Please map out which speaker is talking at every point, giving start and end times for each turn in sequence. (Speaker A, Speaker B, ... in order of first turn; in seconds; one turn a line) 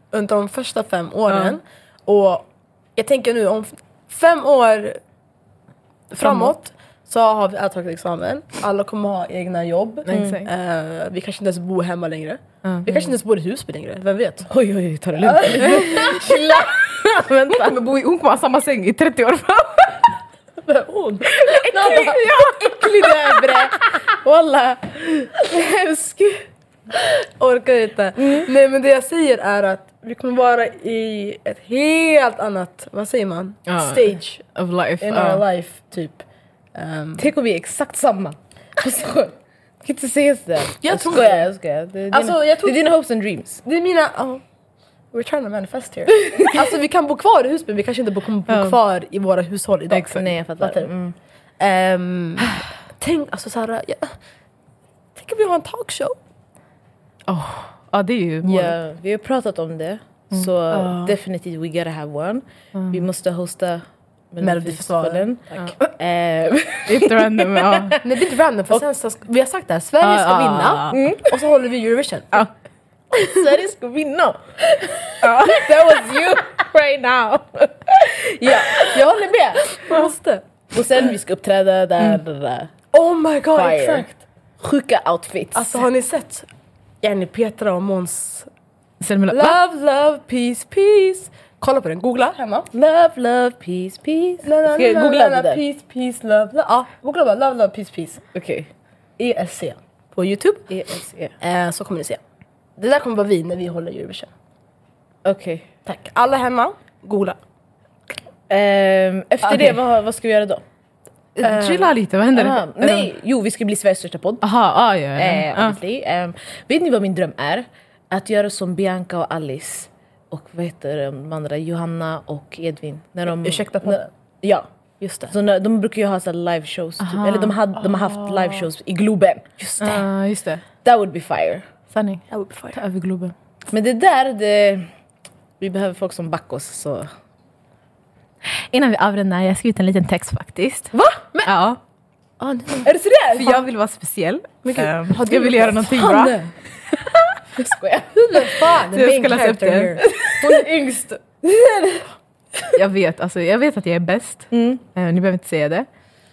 Speaker A: 0.1-5.0
Speaker B: 1.3-1.6
Speaker B: 6.1-6.5
Speaker A: 6.1-14.5
Speaker B: 10.1-10.5
Speaker C: 10.1-10.4
Speaker C: 14.5-17.8
Speaker A: 15.2-16.7
Speaker B: 15.6-16.1
Speaker B: 17.5-20.2
Speaker A: 20.6-23.6
Speaker C: 21.4-26.4
Speaker B: 21.5-23.4
Speaker A: 26.9-34.4
Speaker B: 33.7-35.4
Speaker A: 35.0-36.2
Speaker A: 36.7-37.3
Speaker C: 37.2-43.6
Speaker A: 40.8-41.5
Speaker A: 42.1-42.8
Speaker A: 43.6-44.4
Speaker A: 45.1-50.9
Speaker B: 48.5-48.8
Speaker C: 49.9-51.1
Speaker A: 51.6-54.1
Speaker A: 55.1-56.2
Speaker B: 57.3-58.7
Speaker C: 58.4-68.0
Speaker B: 60.3-61.1
Speaker B: 62.7-63.0
Speaker A: 64.4-65.7
Speaker B: 66.9-68.0
Speaker A: 68.0-72.5
Speaker B: 70.0-71.0
Speaker C: 70.9-71.3
Speaker C: 73.1-74.6
Speaker A: 75.1-75.9
Speaker C: 75.2-80.0
Speaker B: 75.2-75.6
Speaker A: 79.6-80.4
Speaker C: 80.7-82.7
Speaker A: 82.9-84.2
Speaker C: 83.5-84.1
Speaker C: 84.6-85.8
Speaker A: 85.5-86.5
Speaker A: 87.0-88.5
Speaker B: 89.0-89.6
Speaker A: 89.3-92.7
Speaker C: 92.7-95.6
Speaker A: 94.4-98.2
Speaker C: 98.3-98.7
Speaker A: 99.2-100.7
Speaker C: 100.7-101.3
Speaker A: 101.4-102.2
Speaker A: 102.8-104.3
Speaker C: 105.2-105.7
Speaker A: 105.9-107.4
Speaker C: 108.5-110.6
Speaker B: 111.4-113.1
Speaker A: 111.4-111.9
Speaker C: 112.3-114.4
Speaker B: 114.4-115.8
Speaker C: 115.2-124.7
Speaker A: 123.3-124.1
Speaker A: 125.0-125.3
Speaker C: 125.3-130.0
Speaker B: 127.0-128.6
Speaker B: 129.8-130.6
Speaker C: 130.8-131.6
Speaker B: 131.9-133.3
Speaker A: 132.3-132.8
Speaker C: 133.7-134.9
Speaker C: 135.6-137.1
Speaker B: 138.7-140.9
Speaker A: 140.9-141.5
Speaker B: 141.4-141.8
Speaker A: 142.4-143.7
Speaker B: 143.3-146.4
Speaker A: 144.6-145.9
Speaker C: 145.7-146.5
Speaker C: 147.6-148.1
Speaker A: 148.1-151.2
Speaker B: 148.7-150.0
Speaker C: 150.1-150.7
Speaker C: 151.4-152.0
Speaker B: 152.7-155.9
Speaker C: 154.5-154.8